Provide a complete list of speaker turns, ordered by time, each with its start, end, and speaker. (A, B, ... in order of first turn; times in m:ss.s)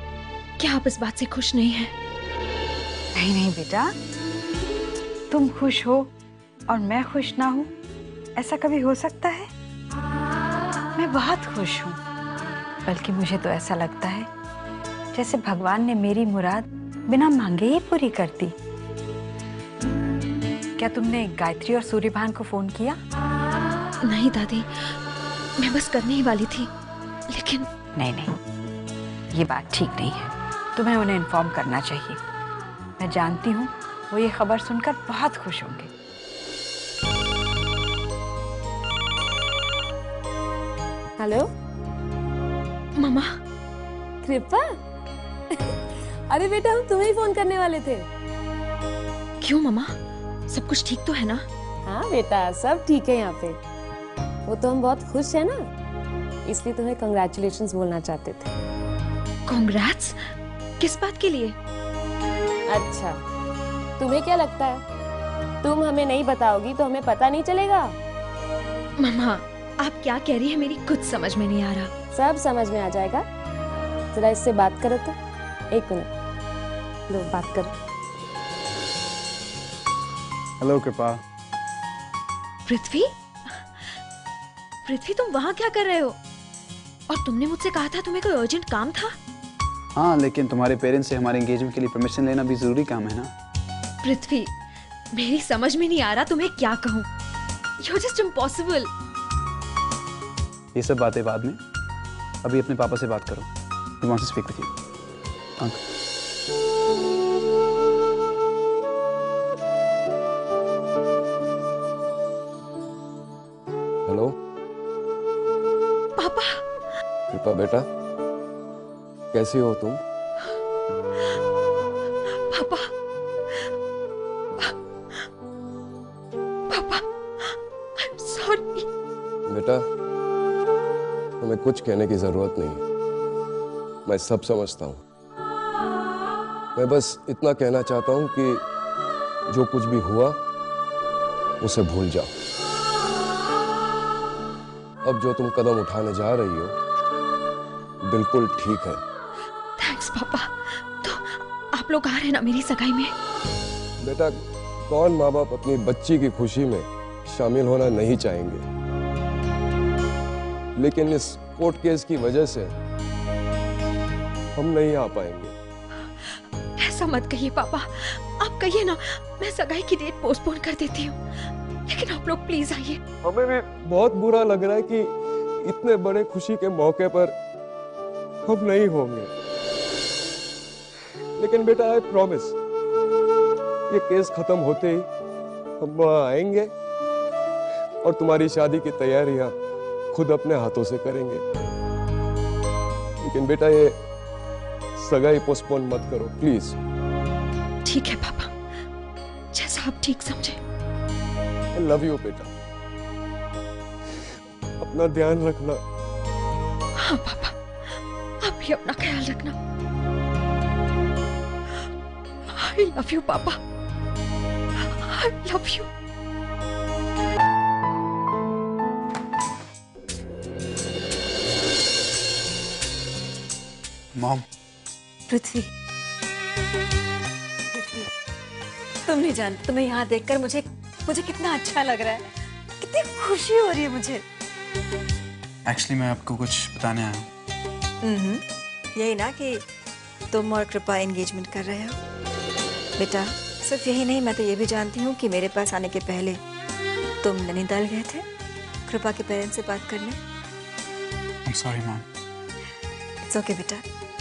0:00.6-0:01.9 A
0:03.1-0:03.9 B
0:05.3-0:06.1 B
0:06.7-0:07.7 B
0:08.4-0:09.5 B
0:11.0-0:12.0 B
0:12.9-0:14.3 B
0:15.1-0:18.5 B
0:20.8-0:23.0 B
0:24.0-0:24.9 A
0:25.6-0:26.7 A
0:27.3-0:27.7 A
0:28.0-0:28.4 B
0:29.3-0:32.2 B
0:33.0-0:35.9 B
0:41.2-0:41.4 C
0:43.0-0:43.3 A
0:44.2-0:44.7 C
0:46.3-0:48.0 C
0:49.4-0:49.9 A
0:50.5-0:51.4 A
0:51.9-0:53.6 C
0:54.5-0:55.6 C
0:56.5-0:58.5 C
0:59.5-1:00.2 A
1:00.8-1:01.6 A
1:02.7-1:03.1 C
1:04.0-1:04.8 C
1:05.6-1:07.9 C
1:09.0-1:11.9 A
1:12.1-1:13.2 C
1:14.1-1:15.2 C
1:15.7-1:16.1 C
1:17.1-1:17.7 C
1:20.6-1:21.2 D
1:22.7-1:23.9 A
1:24.8-1:26.1 A
1:27.1-1:29.1 A
1:30.0-1:33.3 D
1:34.0-1:34.5 A
1:35.1-1:37.1 A
1:37.8-1:38.9 A
1:40.8-1:41.6 D
1:42.4-1:43.5 D
1:44.0-1:44.7 D
1:56.2-1:56.6 A
1:57.3-1:57.8 E
1:59.3-2:00.0 E
2:02.3-2:02.9 A
2:04.6-2:05.2 A
2:06.7-2:08.9 A
2:09.5-2:09.8 E
2:11.4-2:12.8 E
2:14.1-2:15.0 E
2:16.8-2:18.5 E
2:19.5-2:20.3 E
2:21.6-2:22.3 E
2:25.1-2:26.7 E
2:28.1-2:29.0 E
2:29.8-2:33.1 A
2:34.0-2:34.4 E
2:34.9-2:38.6 E
2:40.8-2:42.7 E
2:44.6-2:45.5 E
2:46.0-2:53.0 A
2:53.2-2:55.1 E
2:55.6-2:57.3 E
2:58.5-2:59.3 E
3:01.4-3:02.5 E
3:03.9-3:05.0 E
3:05.8-3:06.7 E
3:08.0-3:09.5 E
3:10.1-3:11.4 E
3:13.2-3:13.9 E
3:15.0-3:16.8 E
3:17.8-3:18.5 A
3:19.5-3:20.6 A
3:21.8-3:22.5 E
3:24.8-3:25.8 E
3:27.0-3:29.5 A
3:32.5-3:33.6 A
3:34.8-3:35.9 A
3:44.2-3:44.4 D
3:49.1-3:52.2 F
3:52.9-3:54.2 F
3:55.6-3:57.3 D
3:58.0-3:58.4 F
3:59.0-3:59.6 F
4:00.3-4:02.0 F
4:03.0-4:06.4 F
4:07.2-4:08.2 F
4:08.9-4:10.2 F
4:11.5-4:12.0 D
4:13.3-4:13.8 F